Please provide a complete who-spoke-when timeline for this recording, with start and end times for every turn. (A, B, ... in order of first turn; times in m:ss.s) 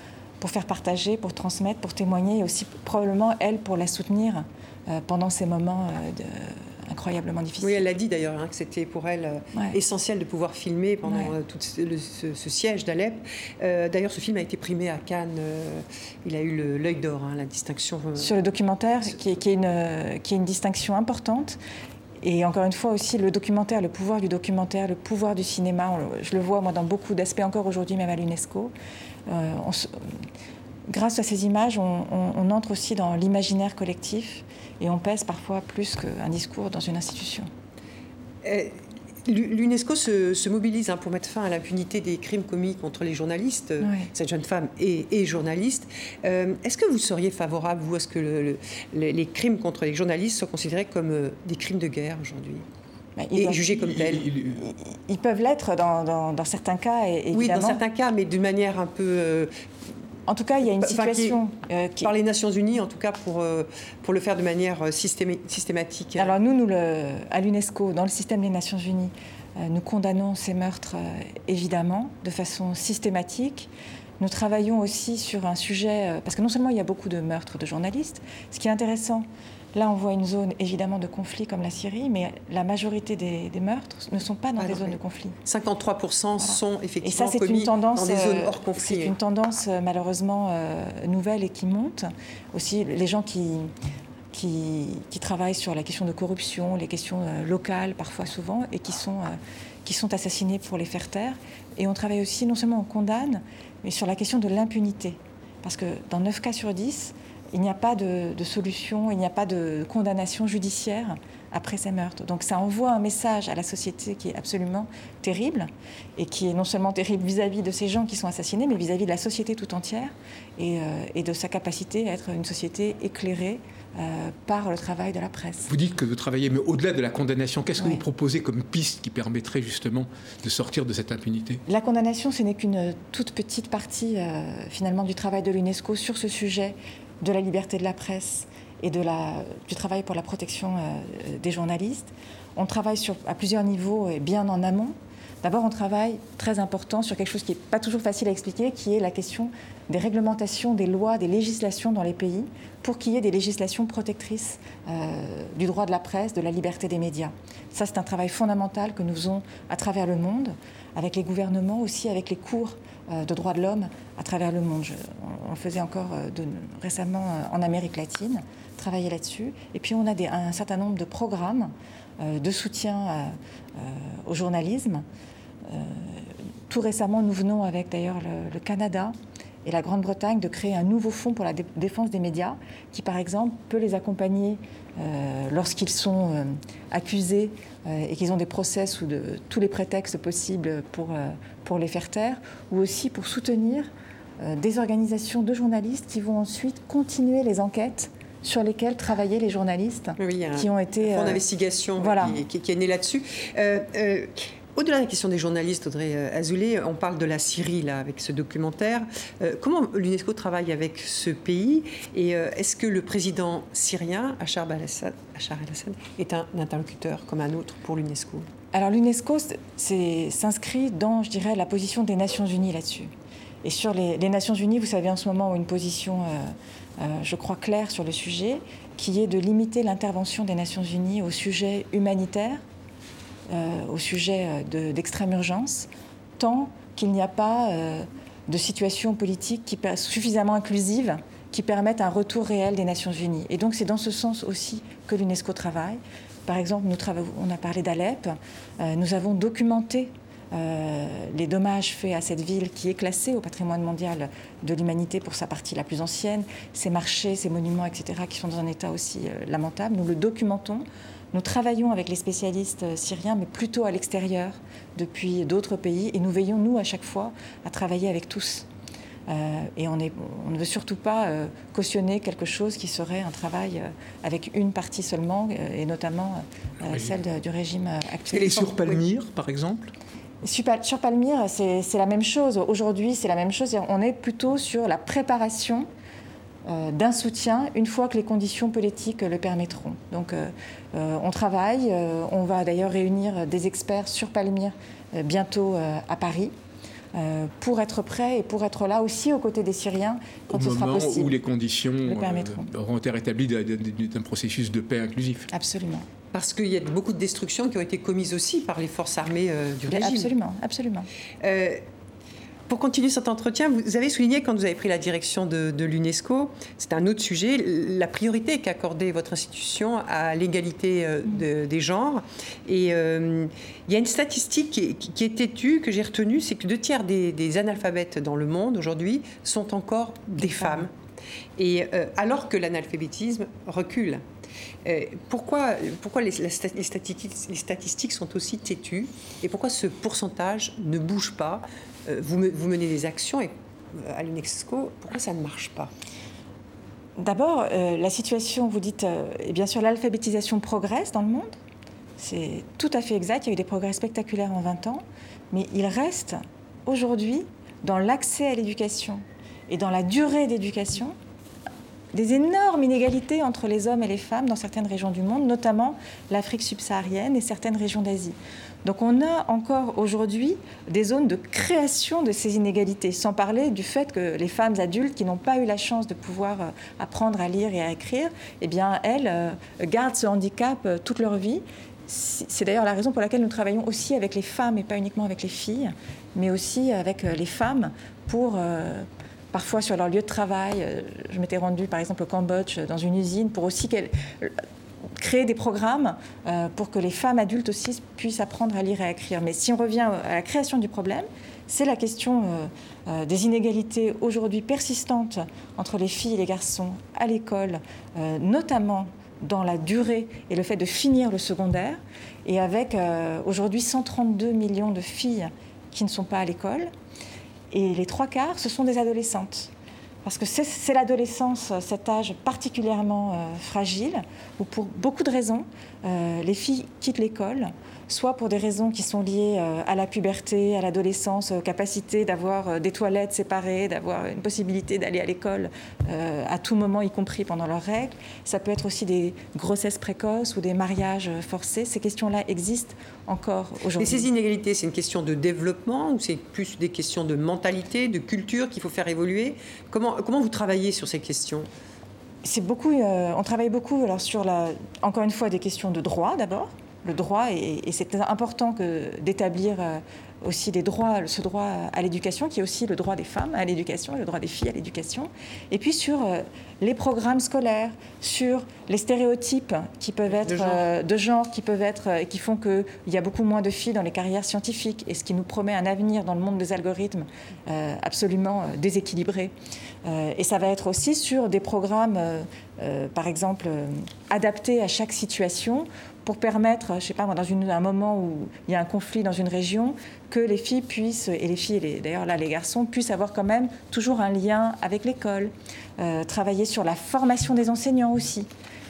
0:00.4-0:07.8 A
0:07.6-0:18.4 B
0:11.0-0:11.3 A
0:18.2-0:21.6 A
0:22.2-0:28.7 A
0:29.3-0:30.1 A
0:30.9-0:37.5 A
0:38.4-0:52.6 B
0:43.8-0:44.1 A
0:53.2-0:57.8 A
0:53.4-0:54.2 B
0:53.8-0:54.6 C
0:57.3-0:59.5 B
1:00.3-1:02.1 A
1:00.8-1:01.4 B
1:02.0-1:06.3 B
1:06.2-1:25.4 A
1:24.6-1:29.2 B
1:26.4-1:33.7 A
1:34.3-2:05.7 A
2:05.7-2:11.6 C
2:11.7-2:55.0 A
2:55.7-3:13.9 A
3:14.4-3:21.4 A
3:20.2-3:38.5 B
3:22.0-3:22.4 A
3:38.7-3:43.1 A
3:43.6-3:52.6 A
3:53.5-3:55.9 A
3:56.4-4:28.7 A
4:29.3-4:38.8 A
4:36.9-4:37.1 C
4:38.3-4:39.9 C
4:40.4-4:45.9 A
4:46.7-4:56.5 A
4:57.1-5:01.4 A
5:00.5-5:05.5 C
5:02.0-5:02.7 A
5:05.5-5:06.1 A
5:06.3-5:10.3 B
5:09.9-5:11.1 A
5:11.4-5:11.8 B
5:12.7-5:30.9 B
5:30.4-5:30.9 A
5:31.6-5:34.2 B
5:34.8-5:45.9 B
5:47.2-5:51.6 A
5:52.2-6:01.2 A
6:02.1-6:34.6 A
6:35.2-6:56.9 A
6:57.7-6:59.7 A
7:00.2-7:24.3 A
7:24.0-7:31.7 B
7:32.4-7:59.5 A
7:50.5-7:50.8 B
8:00.0-8:18.5 A